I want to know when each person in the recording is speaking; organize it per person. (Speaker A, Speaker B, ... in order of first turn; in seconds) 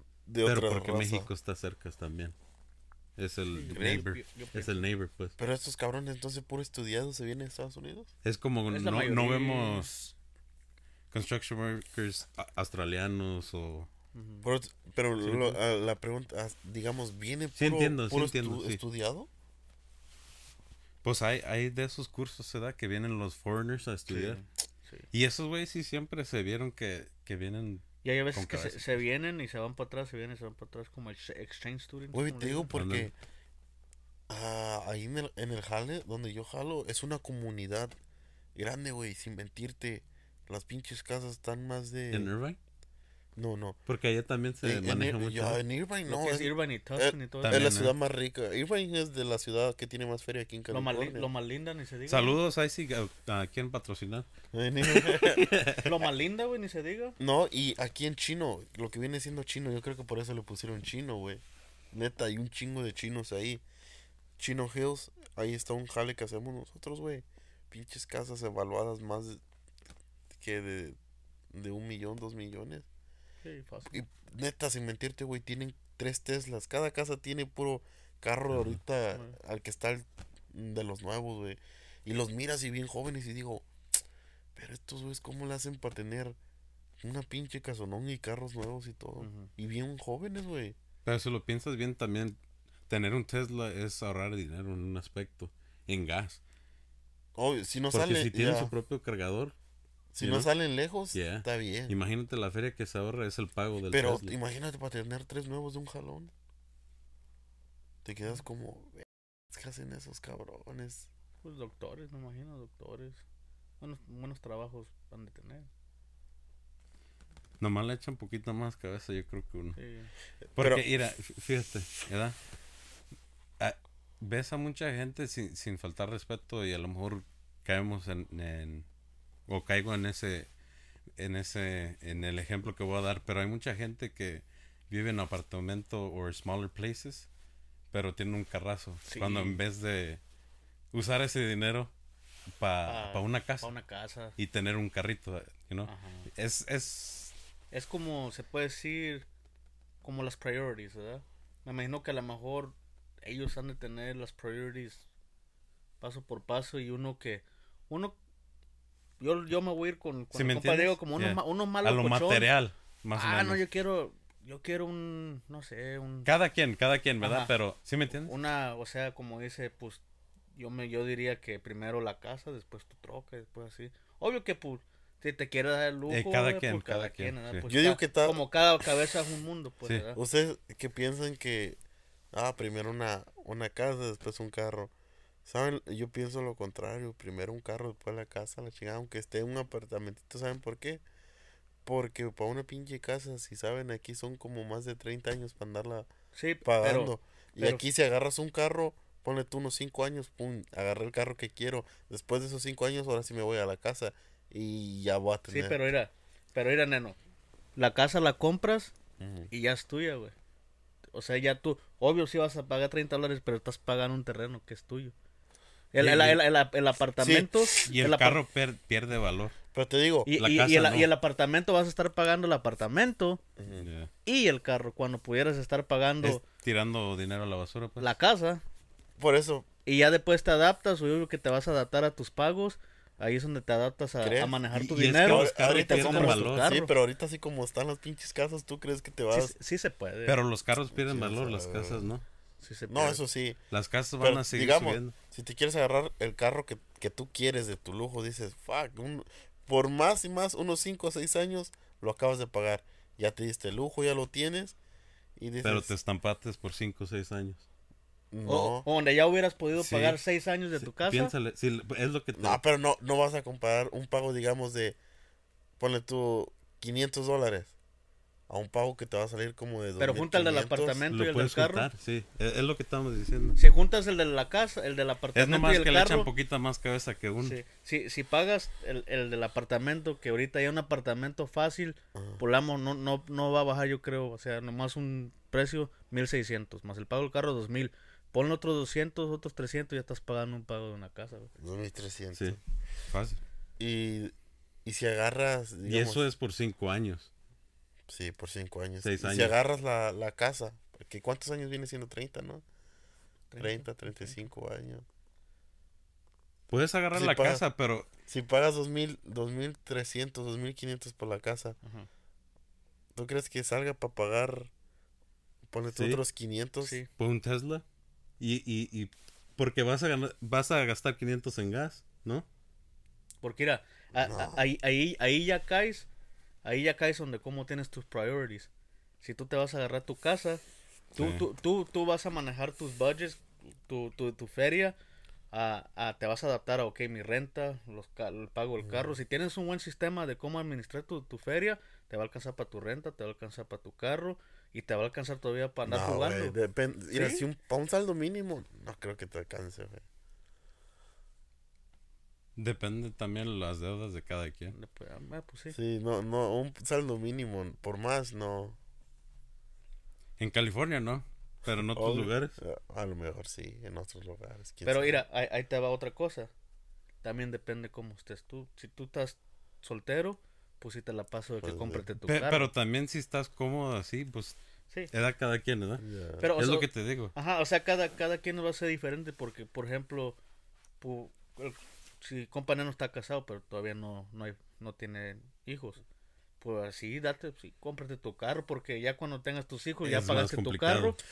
Speaker A: 0.2-1.3, 3.7-4.0, 5.4-8.1, 14.4-19.3, 32.1-33.1, 34.3-38.0, 38.5-42.3, 43.4-43.8, 44.6-51.3, 54.5-55.5, 57.2-63.6, 64.4-69.4, 70.3-71.0, 71.5-72.8, 73.9-83.7, 84.5-86.4, 87.0-90.8, 97.3-98.7, 100.1-101.9, 103.9-106.3, 108.0-111.1, 120.5-120.8, 177.7-178.4, 180.1-181.8, 182.3-184.9, 185.4-191.0, 191.8-196.1, 196.6-205.8, 209.2-209.5, 217.2-217.9, 219.7-220.3, 223.6-223.9, 229.2-229.7, 234.2-234.6, 235.2-239.5, 240.9-242.1, 242.9-243.6, 244.2-254.8, 255.3-255.9, 258.3-258.9, 262.3-265.0, 265.8-267.7, 268.5-271.0, 282.1-282.4, 291.6-292.6, 293.8-294.3, 294.8-296.2, 298.1-302.6, 303.6-305.0, 307.1-307.6, 308.3-311.8, 313.1-314.7, 315.6-317.0, 324.1-324.6, 338.8-339.1, 345.9-350.0, 355.7-358.8, 361.6-365.2, 371.6-372.0, 376.0-376.5
Speaker B: 0.4-2.4, 3.2-5.3, 8.2-10.1, 11.1-13.9, 15.2-15.6, 17.6-18.8, 21.0-24.4, 25.1-29.0, 32.7-33.1, 42.1-42.6, 43.9-45.6, 47.4-47.9, 52.1-54.3, 54.8-55.9, 78.5-78.8, 91.0-96.4, 97.9-99.5, 100.2-100.5, 101.1-104.3, 117.6-119.8, 120.5-122.3, 123.6-128.8, 129.5-130.5, 131.2-137.3, 137.9-140.2, 140.9-141.9, 142.6-143.7, 144.4-147.3, 160.3-163.6, 166.2-168.3, 176.1-177.6, 215.9-216.4, 217.9-219.5, 220.4-221.1, 223.8-224.1, 226.2-228.1, 234.7-236.7, 240.2-242.2, 243.7-245.2, 255.6-257.6, 259.8-260.2, 260.8-262.6, 271.1-273.6, 275.3-277.6, 293.1-293.4, 295.8-297.3, 299.0-299.6, 306.7-308.1, 315.9-316.2, 317.2-317.8, 318.4-322.5, 331.2-331.4, 352.6-354.7, 360.4-362.6, 372.2-374.6, 375.1-376.0, 376.6-377.3, 390.0-391.1
Speaker C: 3.5-4.7, 8.7-9.9, 14.1-14.5, 24.1-25.1, 28.0-32.7, 46.0-47.8, 50.7-52.4, 55.8-57.2, 73.4-74.0, 89.2-89.5, 111.4-113.2, 113.8-115.7, 119.8-120.1, 139.1-139.6, 142.9-144.4, 145.9-146.3, 147.7-149.2, 150.0-155.0, 156.0-158.2, 159.2-162.5, 163.1-166.3, 167.2-167.5, 168.2-170.0, 170.5-180.2, 196.3-197.8, 205.5-207.2, 207.8-208.9, 209.5-210.3, 211.1-215.1, 215.9-218.4, 220.2-223.4, 224.2-226.4, 228.0-228.6, 229.8-236.9, 239.3-240.4, 242.6-243.2, 258.4-261.3, 270.0-271.9, 273.6-276.3, 277.4-291.5, 303.5-304.4, 311.8-312.1, 316.8-317.1, 323.4-326.1, 326.6-328.7, 329.2-330.6, 331.1-334.9, 335.5-346.6, 347.1-347.4, 354.7-355.8, 364.8-366.5, 367.2-372.7, 376.4-380.4, 381.0-386.0, 386.6-391.2